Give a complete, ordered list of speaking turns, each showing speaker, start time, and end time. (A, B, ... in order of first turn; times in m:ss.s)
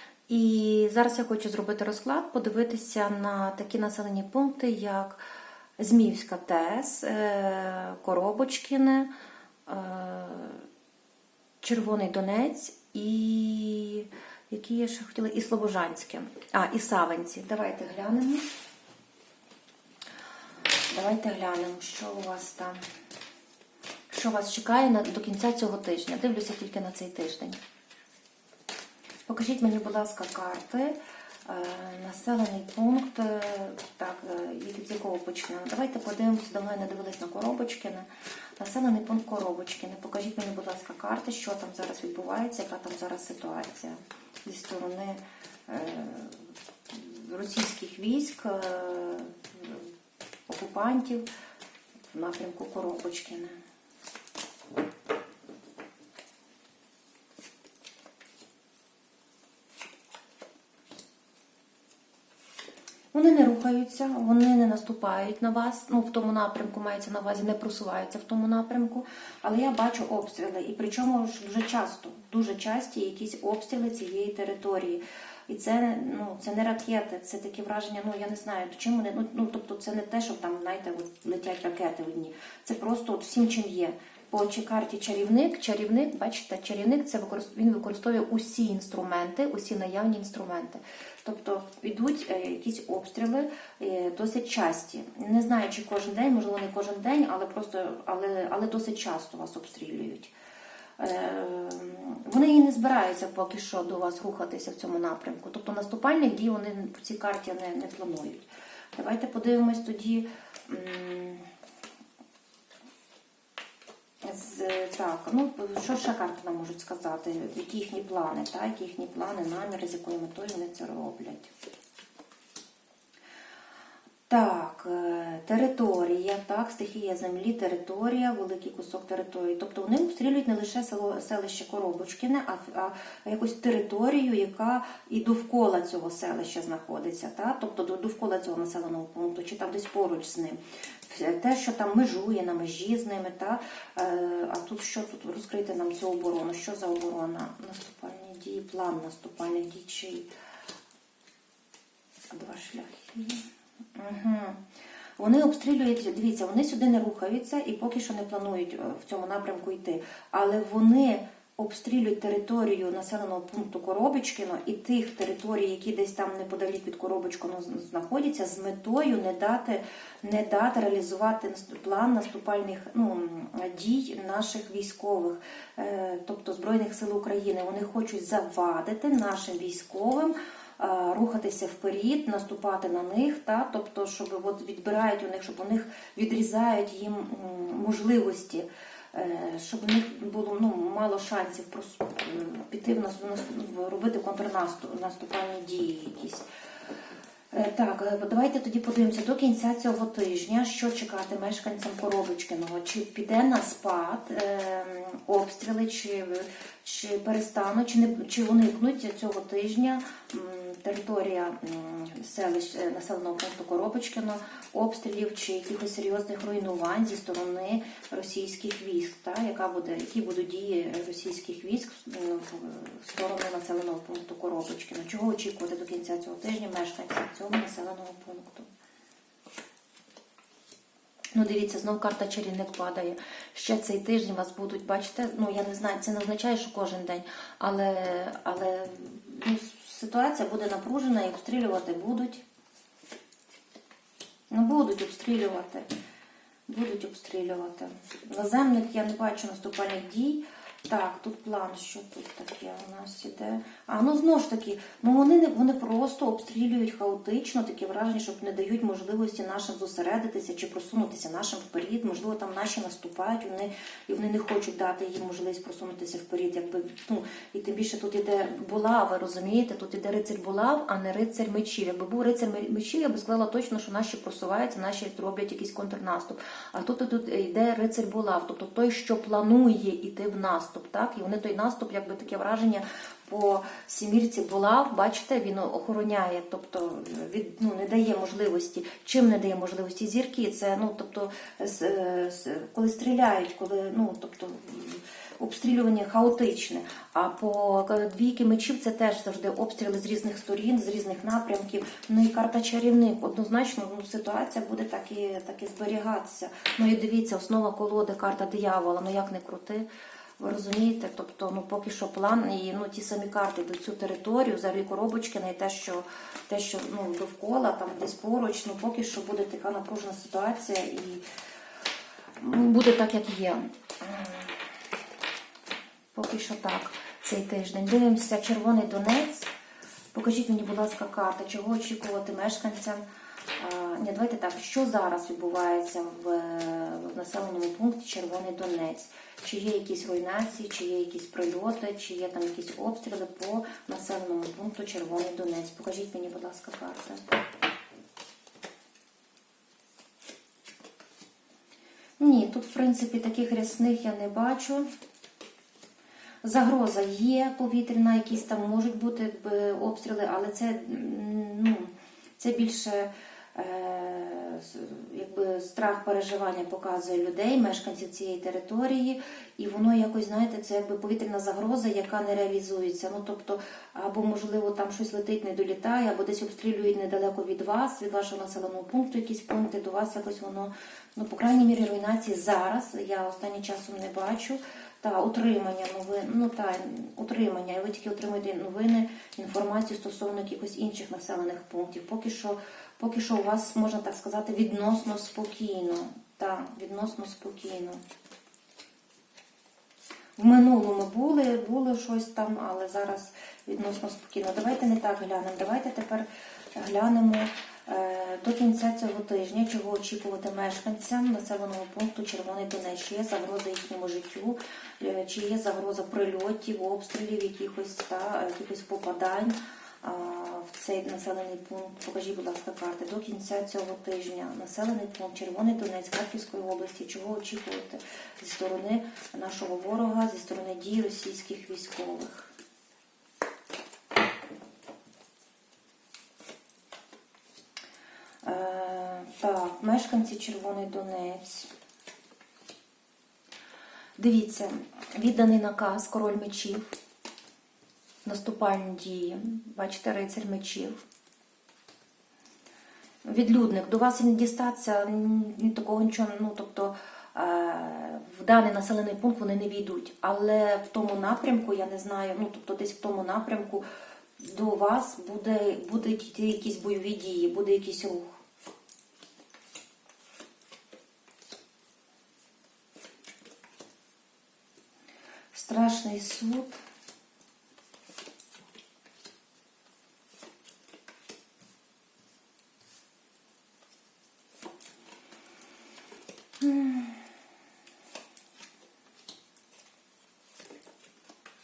0:00.3-0:05.2 A
0:05.8-0:09.1 A
0:09.7-0:10.6 A
0:11.6-0:18.4 A
0:20.9-0:22.8 A
0:24.1-0:27.6 A
0:29.3-0:31.0 A
0:31.5-0:38.1 A
0:38.6-0:49.8 A
0:50.5-0:51.2 A
0:52.1-0:53.6 A
1:03.1-1:40.3 A
1:41.0-1:51.5 A
1:54.2-2:01.5 A
2:04.3-2:30.3 A
2:32.3-2:33.4 A
2:34.0-2:34.6 A
2:35.2-3:16.5 A
3:17.5-3:48.7 A
3:51.3-4:02.4 A
4:04.5-4:05.9 A
4:06.7-5:09.9 A
5:10.4-5:21.2 A
5:22.4-5:24.6 A
5:26.1-5:29.5 A
5:30.1-5:33.0 A
5:33.6-5:47.2 A
5:52.2-5:54.9 A
5:56.4-6:38.0 A
6:40.4-7:12.5 A
7:18.4-7:21.7 A
7:24.2-7:26.9 A
7:28.2-7:31.0 A
7:33.2-7:43.8 A
7:44.4-7:48.4 A
7:55.5-7:56.8 A
8:06.6-8:07.2 A